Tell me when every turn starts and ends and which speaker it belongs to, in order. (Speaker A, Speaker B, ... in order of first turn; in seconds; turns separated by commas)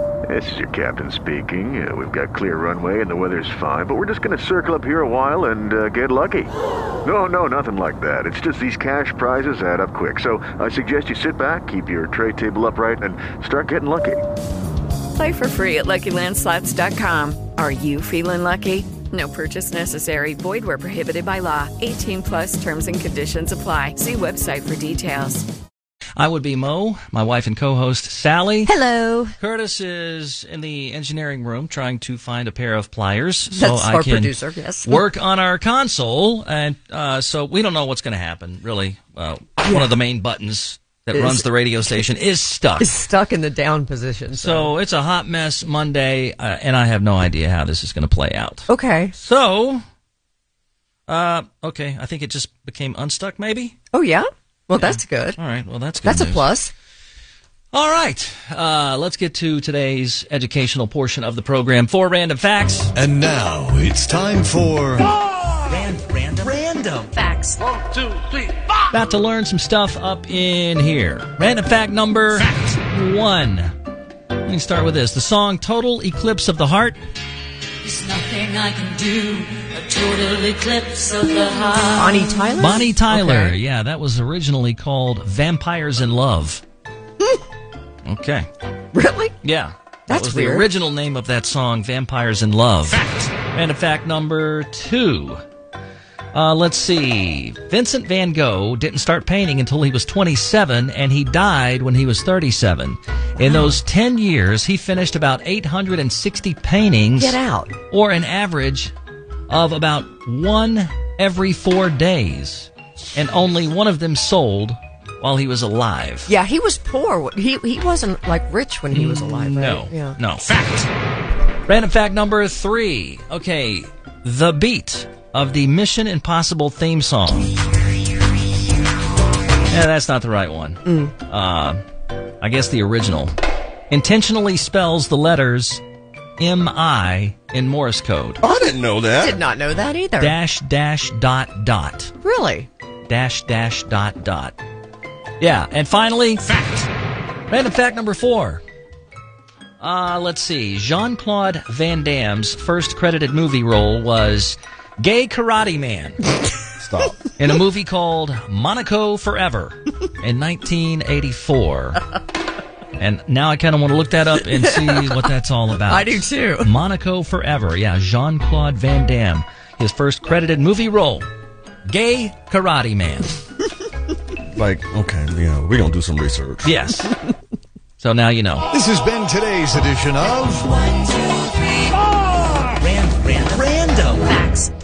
Speaker A: 0.3-6.5, Speaker A: 7.0-14.2, Speaker B: 15.1-25.5, Speaker C: 26.2-28.7, Speaker D: 28.7-29.3, Speaker C: 29.4-43.0, Speaker D: 33.5-35.0, Speaker D: 39.6-39.9, Speaker D: 41.1-41.4, Speaker D: 42.8-44.7, Speaker C: 44.3-49.8, Speaker D: 48.7-49.1, Speaker C: 51.1-53.7, Speaker D: 53.9-55.4, Speaker C: 54.8-56.5, Speaker D: 56.0-56.7, Speaker C: 57.7-62.9, Speaker E: 63.0-65.1, Speaker C: 65.7-67.2, Speaker C: 68.9-73.7, Speaker C: 74.4-77.0, Speaker F: 77.8-82.2, Speaker D: 82.0-83.6, Speaker C: 82.6-86.6, Speaker C: 88.0-88.5, Speaker D: 88.9-89.3, Speaker C: 89.4-95.4, Speaker D: 90.1-90.7, Speaker C: 96.3-107.4, Speaker D: 107.2-107.8, Speaker C: 107.9-108.9, Speaker C: 109.5-116.3, Speaker D: 116.3-120.2, Speaker C: 118.9-120.9, Speaker C: 121.7-127.5, Speaker C: 129.7-131.8, Speaker D: 130.9-131.1, Speaker C: 132.4-133.3, Speaker C: 133.9-135.8, Speaker C: 136.4-138.4, Speaker G: 138.4-139.4, Speaker D: 139.1-140.4, Speaker C: 140.2-142.1, Speaker D: 142.2-142.7, Speaker C: 143.1-144.6, Speaker C: 145.4-146.9, Speaker C: 147.5-148.6, Speaker C: 149.8-156.2, Speaker G: 156.8-157.2, Speaker C: 157.4-162.1, Speaker C: 163.0-171.3, Speaker D: 164.7-165.0, Speaker D: 165.9-166.7, Speaker C: 171.9-173.3, Speaker G: 174.5-176.7, Speaker C: 176.6-177.2, Speaker C: 178.0-178.6, Speaker E: 178.7-180.7, Speaker C: 182.8-184.5